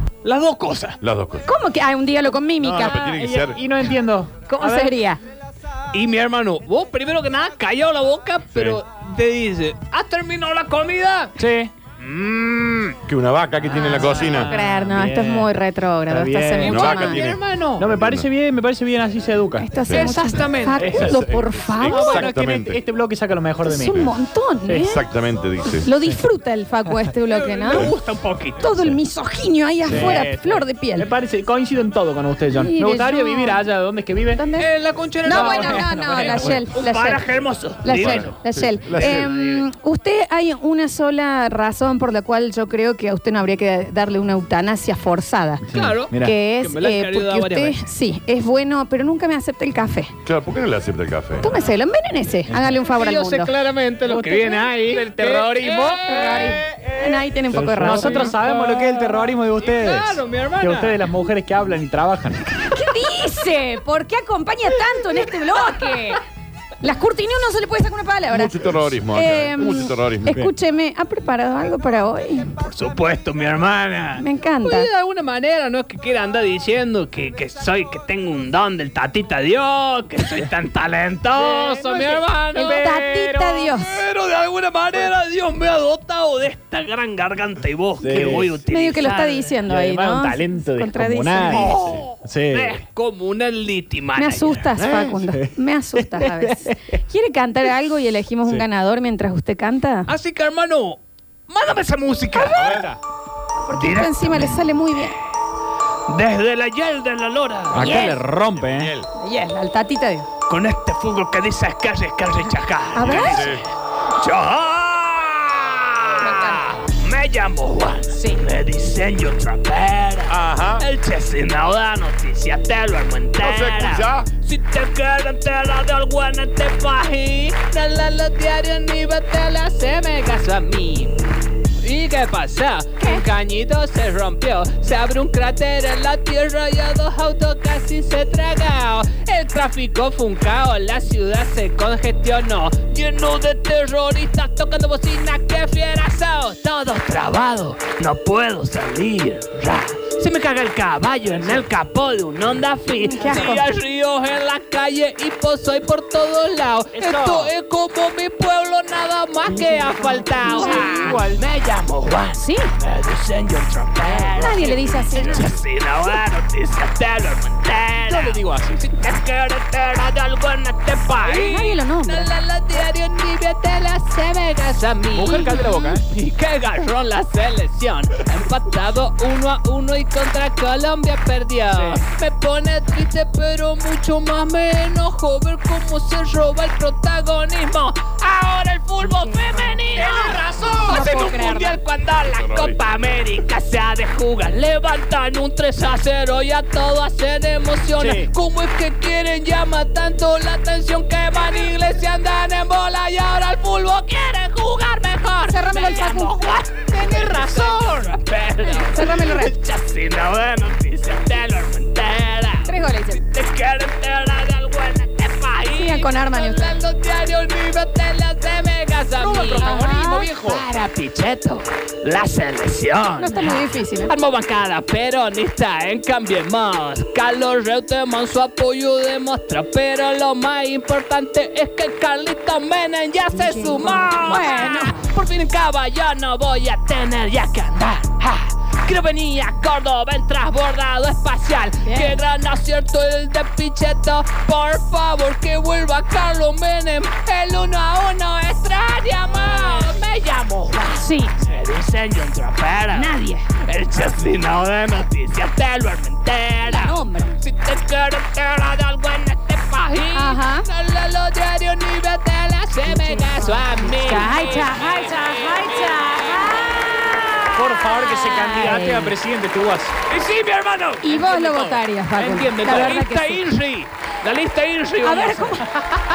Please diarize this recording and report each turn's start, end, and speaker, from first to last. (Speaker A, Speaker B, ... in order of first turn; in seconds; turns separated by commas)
Speaker A: 0.2-1.0, Speaker B: 1.0-1.5, Speaker C: 1.4-3.2, Speaker B: 2.6-3.6, Speaker D: 2.7-4.9, Speaker C: 4.5-5.2, Speaker A: 5.9-11.4, Speaker D: 11.4-12.9, Speaker B: 13.1-14.5, Speaker C: 13.7-17.2, Speaker D: 13.7-16.8, Speaker A: 16.6-17.9, Speaker B: 16.6-18.3, Speaker D: 17.8-19.7, Speaker C: 19.6-22.3, Speaker B: 19.8-20.2, Speaker A: 19.9-20.9, Speaker D: 20.8-21.2, Speaker B: 20.8-22.8, Speaker D: 21.9-24.1, Speaker C: 23.6-25.0, Speaker B: 24.8-25.9, Speaker C: 25.8-27.9, Speaker A: 27.3-28.6, Speaker C: 28.6-31.1, Speaker D: 29.9-34.4, Speaker C: 32.6-33.6, Speaker C: 34.3-34.7, Speaker A: 34.6-39.7, Speaker C: 35.2-45.6, Speaker D: 35.2-36.6, Speaker B: 37.9-39.3, Speaker D: 45.6-46.4, Speaker A: 45.7-47.8, Speaker C: 46.2-50.1, Speaker B: 50.2-51.5, Speaker C: 51.4-53.5, Speaker D: 52.5-52.8, Speaker A: 52.9-56.6, Speaker D: 54.0-56.5, Speaker C: 56.0-58.4, Speaker D: 57.5-62.5, Speaker A: 57.8-61.0, Speaker C: 62.5-66.2, Speaker C: 66.8-72.5, Speaker B: 68.3-70.4, Speaker A: 72.6-82.9, Speaker C: 74.2-74.9, Speaker D: 81.3-83.6, Speaker C: 82.5-84.0, Speaker A: 83.7-89.4, Speaker D: 88.0-88.5, Speaker C: 88.7-91.8, Speaker D: 89.2-92.8, Speaker A: 91.5-94.7, Speaker C: 94.1-100.1, Speaker B: 94.8-95.2, Speaker D: 95.3-97.0, Speaker A: 100.1-102.6, Speaker C: 102.3-102.7, Speaker B: 102.5-102.9, Speaker D: 102.6-103.0, Speaker C: 103.7-105.1, Speaker A: 103.7-104.7, Speaker A: 106.1-107.9, Speaker D: 107.7-108.9, Speaker C: 107.7-108.2, Speaker B: 108.7-109.1, Speaker C: 109.2-110.3, Speaker A: 110.5-113.6, Speaker C: 112.9-113.5, Speaker B: 113.0-113.7, Speaker A: 114.1-131.2, Speaker C: 116.2-116.7, Speaker C: 118.1-118.4, Speaker B: 120.3-120.8, Speaker B: 123.4-124.3, Speaker A: 131.8-267.4, Speaker C: 133.0-133.2, Speaker C: 153.0-153.6, Speaker D: 156.9-157.5, Speaker D: 159.5-161.4, Speaker C: 160.4-161.2, Speaker C: 162.3-162.7, Speaker D: 164.0-165.4, Speaker C: 164.4-165.5, Speaker D: 168.0-168.8, Speaker C: 171.2-172.3, Speaker D: 175.1-176.0, Speaker C: 175.5-175.8, Speaker D: 181.7-182.0, Speaker C: 189.0-191.8, Speaker D: 190.0-191.1, Speaker B: 192.2-192.8, Speaker D: 198.0-198.3, Speaker C: 205.5-206.4, Speaker C: 206.9-207.4, Speaker D: 207.2-207.9, Speaker C: 208.6-209.6, Speaker C: 212.7-213.2, Speaker C: 215.7-216.8, Speaker D: 219.1-220.6, Speaker C: 219.5-220.3, Speaker C: 223.2-224.1, Speaker C: 233.3-235.1, Speaker C: 241.8-242.2, Speaker C: 249.4-249.9, Speaker C: 250.9-251.3, Speaker C: 252.9-253.5, Speaker C: 256.6-257.4, Speaker C: 259.9-260.6, Speaker C: 262.9-269.1, Speaker D: 267.5-270.0, Speaker A: 270.1-271.1, Speaker C: 271.0-273.4, Speaker D: 271.1-271.8, Speaker A: 272.2-275.6, Speaker C: 275.0-275.7